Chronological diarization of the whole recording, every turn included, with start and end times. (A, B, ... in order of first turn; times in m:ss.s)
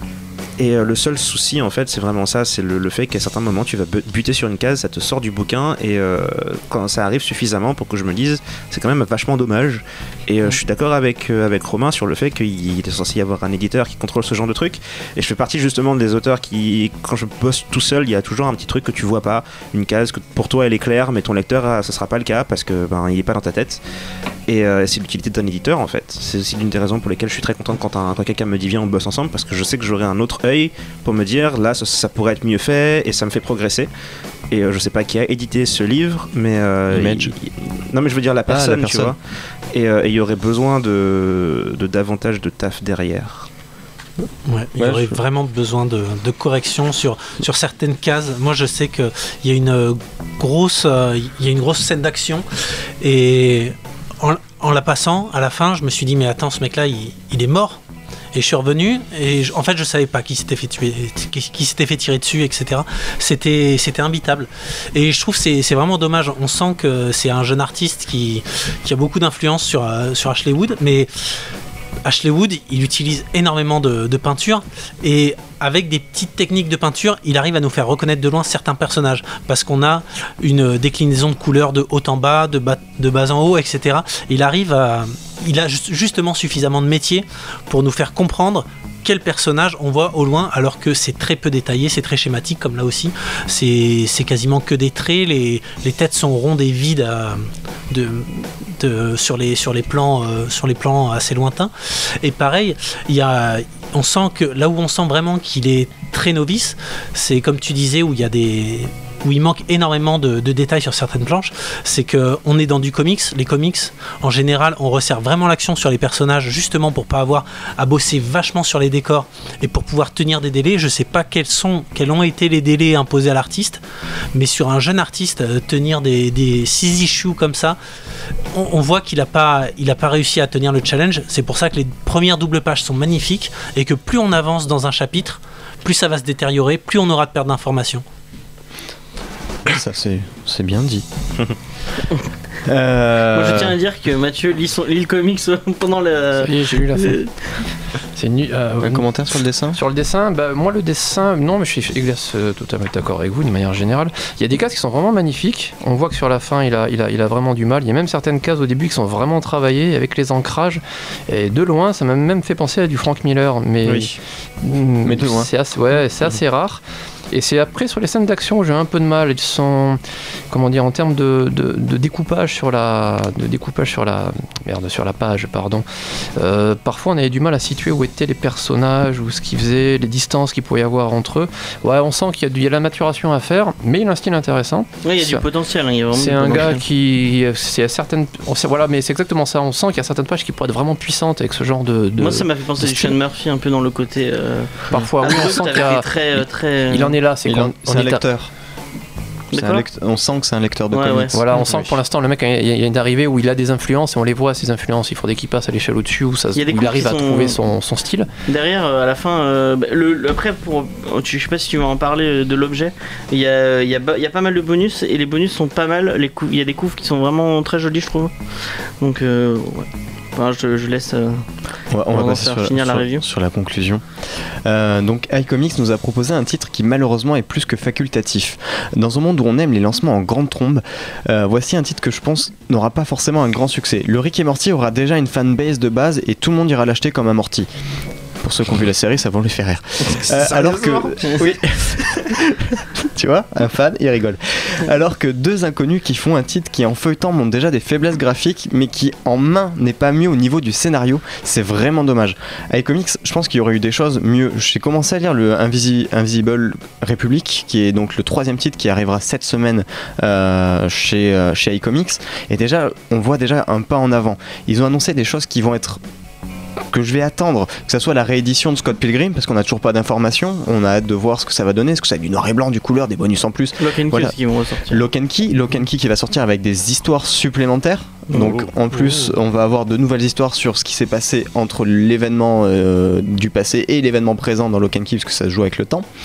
0:00.6-0:23.8 A
0:24.5-0:33.9 A
0:34.5-0:39.2 A
0:36.9-0:37.3 B
0:38.5-0:39.2 B
0:39.7-0:43.5 A
0:44.5-0:52.5 C
0:44.8-0:45.2 B
0:53.0-0:57.8 C
0:58.3-1:11.4 C
1:12.0-2:03.8 C
2:04.3-2:07.8 C
2:08.5-2:18.0 C
2:19.6-2:21.1 B
2:22.6-2:23.8 B
2:23.3-2:27.3 D
2:26.4-2:27.3 E
2:28.2-2:29.1 E
2:28.8-2:29.8 B
2:29.7-2:50.0 E
2:43.8-2:44.2 A
2:45.0-2:45.5 B
2:50.5-3:05.5 E
3:05.0-3:06.8 D
3:06.1-3:13.2 E
3:12.2-3:17.2 D
3:14.9-3:16.1 E
3:16.9-3:18.3 E
3:17.4-3:18.5 B
3:19.5-3:19.8 D
3:19.5-3:21.9 B
3:20.9-3:21.4 D
3:21.3-3:28.3 E
3:26.6-3:27.6 D
3:28.5-3:41.5 D
3:41.9-3:57.7 B
3:42.1-3:43.2 D
3:58.4-4:26.0 B
4:00.2-4:02.1 A
4:26.8-4:34.4 B
4:33.8-4:35.1 D
4:34.9-4:46.1 B
4:38.3-4:38.7 D